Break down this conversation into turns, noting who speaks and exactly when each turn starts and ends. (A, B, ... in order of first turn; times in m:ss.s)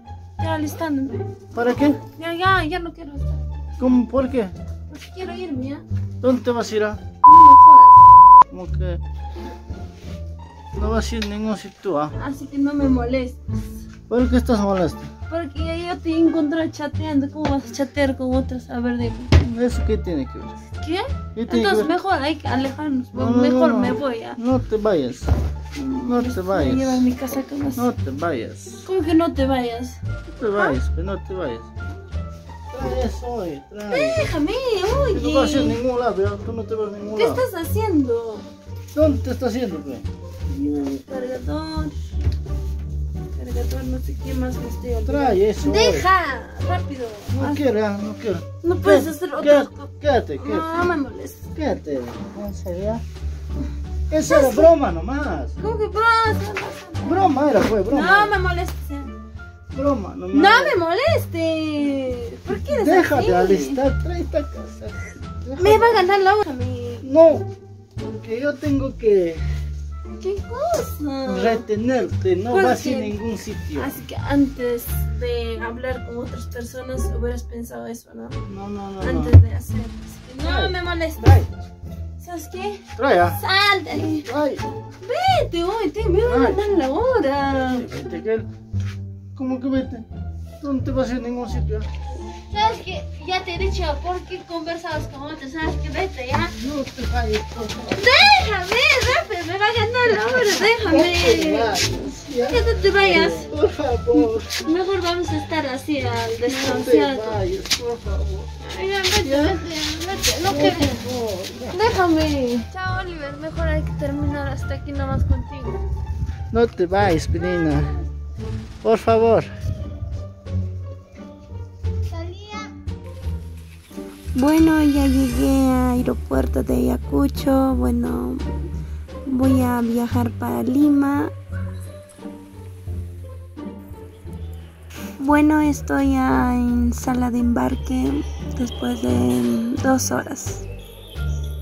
0:00.4-0:01.3 A
0:01.5-0:02.0 B
0:02.1-0:03.5 A
0:03.8-0:04.5 B
0:04.9-0:05.8 A
0:06.2-0:07.0 B
0:07.2-0:08.0 A
0:08.5-0:09.0 B
0:10.8-0:12.1 B
0:12.2-0:13.6 A
0:14.1-0:15.1 B
0:15.3-0:19.3 A
0:19.4-0:20.6 B
0:20.8-0:24.4 A
0:21.4-0:22.0 B
0:23.1-0:25.3 B
0:25.7-0:27.9 A
0:26.0-0:27.0 B
0:27.8-0:28.8 B
0:28.8-0:30.0 A
0:30.3-0:31.7 B
0:32.7-0:34.3 B
0:33.9-0:35.8 A
0:35.1-0:37.4 B
0:37.1-0:38.5 A
0:38.9-0:40.1 B
0:40.5-0:42.0 A
0:43.4-0:47.6 A
0:45.0-0:46.1 B
0:47.3-0:50.7 B
0:48.6-0:51.5 A
0:51.5-0:53.0 B
0:54.1-0:55.6 B
0:54.2-0:54.7 A
0:55.6-0:57.3 A
0:57.0-0:58.4 B
0:57.9-0:59.1 A
0:59.7-1:00.8 B
1:00.3-1:03.8 A
1:02.5-1:06.0 B
1:05.6-1:07.1 A
1:07.0-1:07.5 B
1:08.0-1:09.4 B
1:10.2-1:11.6 A
1:11.2-1:14.0 B
1:12.5-1:13.2 A
1:13.8-1:18.4 A
1:18.5-1:19.3 B
1:19.0-1:21.4 A
1:20.4-1:21.5 B
1:22.2-1:24.3 A
1:23.0-1:23.4 B
1:24.1-1:24.6 B
1:25.0-1:27.9 A
1:26.2-1:26.7 B
1:27.6-1:28.5 B
1:29.4-1:30.1 B
1:30.6-1:31.9 B
1:32.5-1:36.6 A
1:36.6-1:38.1 B
1:38.0-1:41.8 A
1:40.1-1:44.6 B
1:42.4-1:43.5 A
1:44.2-1:47.4 A
1:46.5-1:48.5 B
1:48.6-1:51.0 A
1:49.2-1:49.6 B
1:50.4-1:52.0 B
1:51.7-1:55.8 A
1:56.5-1:58.0 B
1:58.8-1:59.5 B
2:02.2-2:02.7 A
2:04.4-2:08.4 C
2:09.3-2:11.3 C
2:15.2-2:20.7 C